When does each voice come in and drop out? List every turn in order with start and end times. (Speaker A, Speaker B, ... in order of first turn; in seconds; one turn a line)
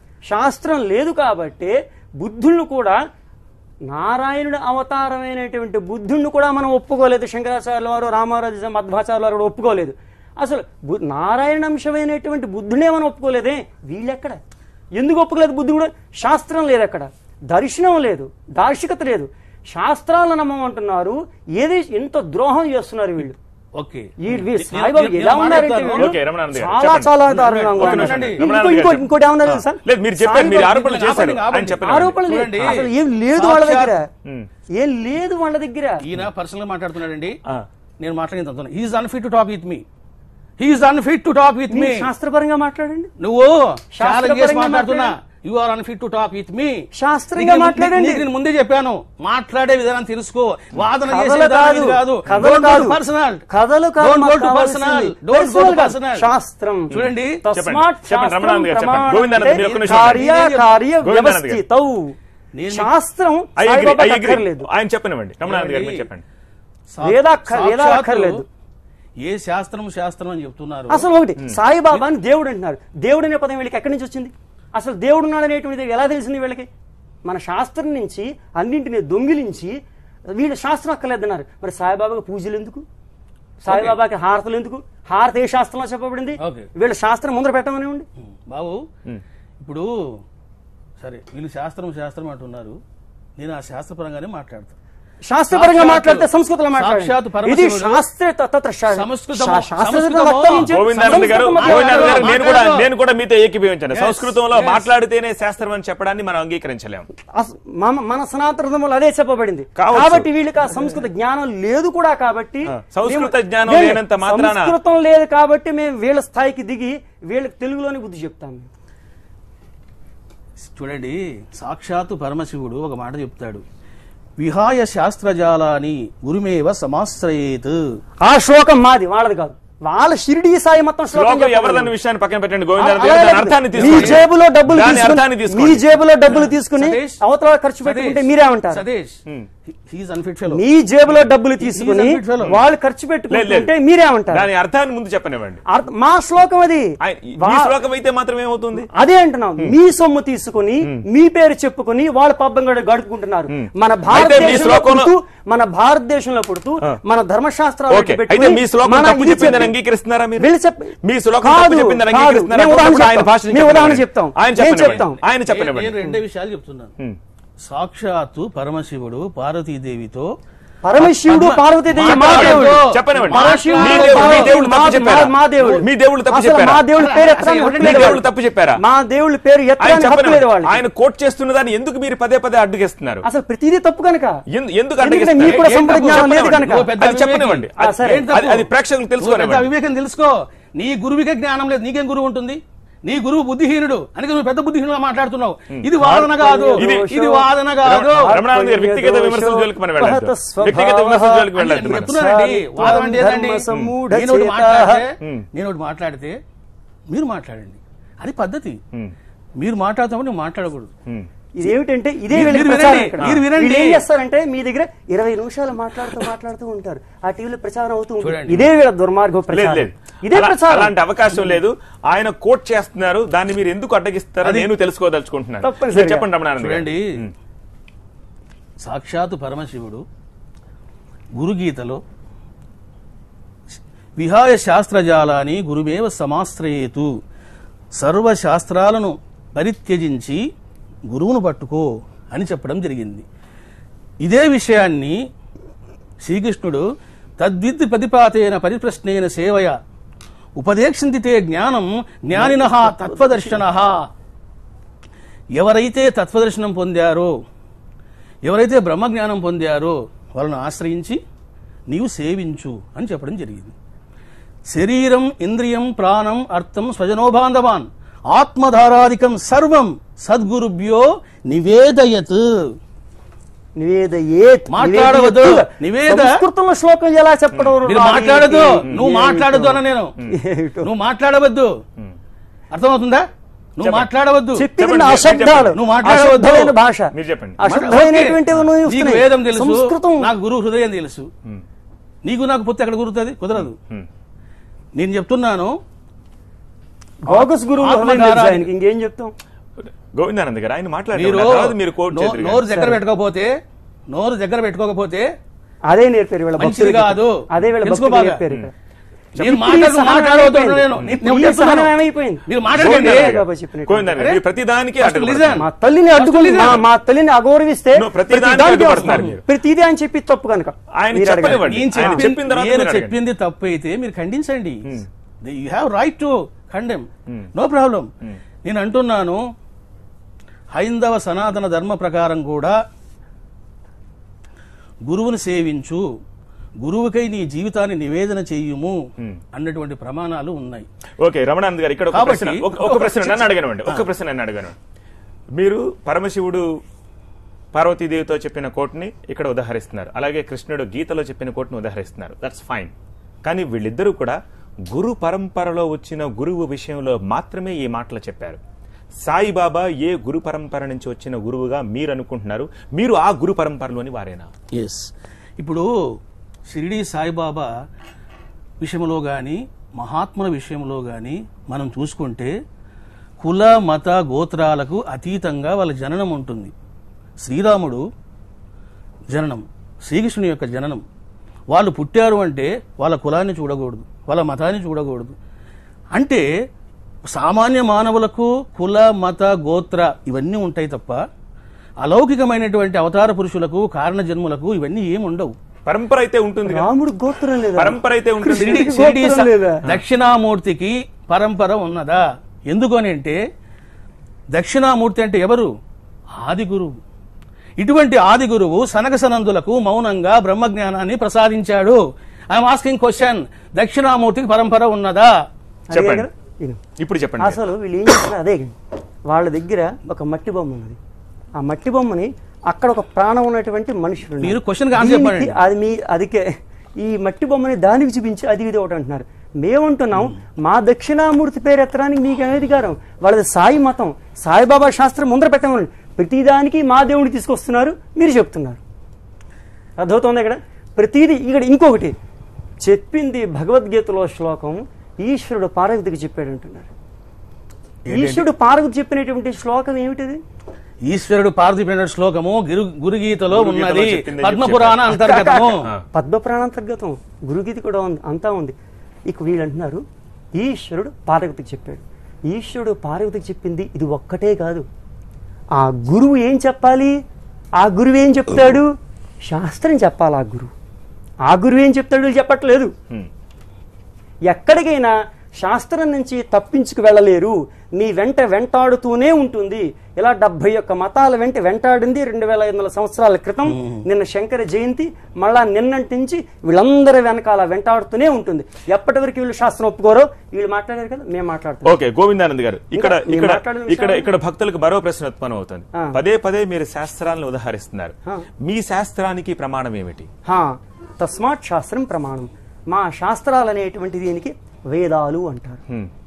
Speaker A: 0.3-3.0
Speaker A: 3.9-14.4
Speaker A: 15.0-23.4
Speaker B: 23.8-26.1
Speaker A: 24.2-30.7
Speaker C: 25.9-27.2
Speaker B: 27.3-28.4
Speaker C: 27.8-32.2
Speaker B: 30.2-33.9
Speaker A: 31.8-34.1
Speaker A: 34.8-36.0
Speaker B: 36.0-37.4
Speaker B: 38.0-39.8
Speaker B: 40.6-42.1
Speaker A: 41.7-43.1
Speaker B: 43.2-53.5
Speaker A: 44.0-45.1
Speaker A: 47.0-48.3
Speaker A: 51.1-53.0
Speaker A: 53.5-62.2
Speaker B: 54.0-56.3
Speaker B: 56.9-57.4
Speaker C: 56.9-60.3
Speaker B: 59.4-60.7
Speaker C: 61.0-61.6
Speaker B: 62.5-62.9
Speaker A: 62.7-64.7
Speaker C: 63.6-66.2
Speaker B: 65.5-66.1
Speaker B: 66.9-68.4
Speaker A: 67.0-68.5
Speaker B: 69.2-71.0
Speaker A: 70.9-76.7
Speaker A: 77.2-79.8
Speaker A: 80.3-82.8
Speaker A: 83.6-88.1
Speaker B: 83.7-83.9
Speaker B: 86.4-86.7
Speaker B: 88.5-88.8
Speaker B: 89.6-90.2
Speaker B: 91.0-92.8
Speaker B: 93.4-94.8
Speaker A: 95.3-102.4
Speaker B: 95.5-98.0
Speaker B: 98.9-102.9
Speaker C: 100.7-107.1
Speaker B: 103.9-104.8
Speaker A: 107.3-118.7
Speaker C: 109.8-110.3
Speaker C: 112.7-114.8
Speaker B: 120.7-123.6
Speaker B: 124.4-128.0
Speaker A: 128.2-131.9
Speaker C: 131.1-135.9
Speaker A: 132.8-138.8
Speaker B: 133.8-134.2
Speaker B: 136.4-137.2
Speaker B: 137.8-140.6
Speaker A: 140.5-144.5
Speaker B: 141.6-142.5
Speaker C: 143.3-143.7
Speaker C: 144.3-145.6
Speaker A: 145.7-147.7
Speaker C: 147.0-148.9
Speaker A: 148.8-159.8
Speaker C: 153.5-155.1
Speaker C: 157.9-160.5
Speaker A: 160.4-165.2
Speaker C: 161.0-166.0
Speaker B: 164.8-166.9
Speaker B: 167.6-170.3
Speaker A: 170.8-178.2
Speaker C: 171.1-176.9
Speaker B: 171.3-175.8
Speaker B: 176.9-178.2
Speaker C: 177.8-178.8
Speaker A: 178.8-180.8
Speaker C: 179.8-183.2
Speaker A: 183.2-184.4
Speaker C: 184.5-187.8
Speaker A: 185.0-186.9
Speaker B: 185.5-188.7
Speaker A: 187.8-188.3
Speaker C: 188.3-189.7
Speaker B: 189.2-198.4
Speaker C: 195.8-196.3
Speaker A: 196.1-205.0
Speaker C: 196.8-197.1
Speaker C: 197.8-202.2
Speaker B: 201.6-206.3
Speaker C: 203.7-203.9
Speaker C: 205.2-205.5
Speaker B: 207.1-208.8
Speaker B: 209.6-210.9
Speaker A: 211.6-220.9
Speaker B: 212.3-214.0
Speaker B: 218.2-218.7
Speaker C: 219.5-227.3
Speaker B: 224.4-224.7
Speaker A: 225.6-226.3
Speaker B: 226.6-227.0
Speaker B: 228.8-230.0
Speaker B: 231.4-232.0
Speaker B: 234.2-237.2
Speaker B: 238.0-240.4
Speaker B: 241.1-243.2
Speaker B: 244.2-245.2
Speaker B: 246.2-246.8
Speaker B: 247.4-249.8
Speaker B: 250.6-254.1
Speaker A: 252.3-253.6
Speaker B: 255.6-257.3
Speaker B: 258.4-261.2
Speaker B: 261.9-263.7
Speaker B: 264.7-272.6
Speaker A: 273.8-280.9
Speaker B: 274.7-276.4
Speaker B: 277.9-280.1
Speaker B: 280.8-281.7
Speaker B: 282.7-283.3
Speaker B: 283.8-284.7
Speaker C: 283.8-284.1
Speaker A: 284.6-290.3
Speaker C: 284.8-285.8
Speaker B: 285.8-286.8
Speaker C: 287.1-287.6
Speaker B: 287.7-291.3
Speaker B: 292.2-293.8
Speaker C: 293.6-294.1
Speaker B: 295.0-295.7
Speaker A: 297.2-299.3
Speaker B: 297.3-298.7
Speaker C: 299.8-302.6
Speaker B: 301.1-303.5
Speaker A: 302.7-303.0
Speaker B: 304.1-305.2
Speaker A: 305.9-308.7
Speaker B: 306.6-308.4
Speaker B: 309.4-311.9
Speaker A: 309.4-314.1
Speaker B: 312.5-313.4
Speaker C: 312.8-315.6
Speaker B: 315.0-316.8
Speaker A: 315.6-322.2
Speaker C: 317.9-319.4
Speaker B: 319.0-319.3
Speaker C: 320.9-323.2
Speaker B: 321.6-324.9
Speaker B: 325.4-328.1
Speaker B: 328.6-329.4
Speaker B: 330.7-332.8
Speaker B: 335.1-336.1
Speaker B: 336.8-339.0
Speaker B: 339.5-340.9
Speaker C: 341.2-344.8
Speaker B: 342.1-344.0
Speaker C: 345.6-346.7
Speaker C: 347.7-352.9
Speaker C: 353.4-354.4
Speaker C: 354.9-358.6
Speaker C: 359.2-364.5
Speaker B: 364.7-365.9
Speaker B: 366.7-367.7
Speaker B: 368.8-372.5
Speaker B: 373.4-376.7
Speaker B: 377.4-378.0
Speaker B: 379.3-381.0
Speaker B: 381.7-385.3
Speaker B: 386.1-386.4
Speaker B: 387.3-391.2
Speaker B: 392.0-395.6
Speaker C: 395.9-396.9
Speaker A: 396.6-399.8
Speaker C: 397.8-398.9
Speaker B: 398.6-403.4
Speaker B: 404.5-405.7
Speaker B: 406.4-406.9
Speaker B: 407.8-412.0
Speaker B: 412.5-415.3
Speaker A: 415.9-416.8
Speaker C: 415.9-416.3
Speaker C: 417.0-417.6
Speaker A: 417.4-418.8
Speaker A: 419.3-421.0
Speaker A: 421.6-426.5
Speaker B: 424.4-425.6
Speaker A: 427.0-438.8
Speaker A: 440.0-442.1
Speaker A: 442.8-446.9
Speaker B: 448.1-448.5
Speaker A: 448.1-450.4
Speaker B: 451.1-455.9
Speaker C: 453.5-455.1
Speaker A: 455.1-458.8
Speaker A: 459.3-460.0
Speaker A: 460.6-464.9
Speaker A: 465.8-467.1
Speaker A: 467.8-468.9
Speaker A: 469.5-470.7
Speaker A: 471.5-472.9
Speaker A: 474.5-492.0
Speaker B: 483.7-484.0
Speaker C: 491.9-500.3
Speaker A: 492.9-494.3
Speaker A: 500.5-505.8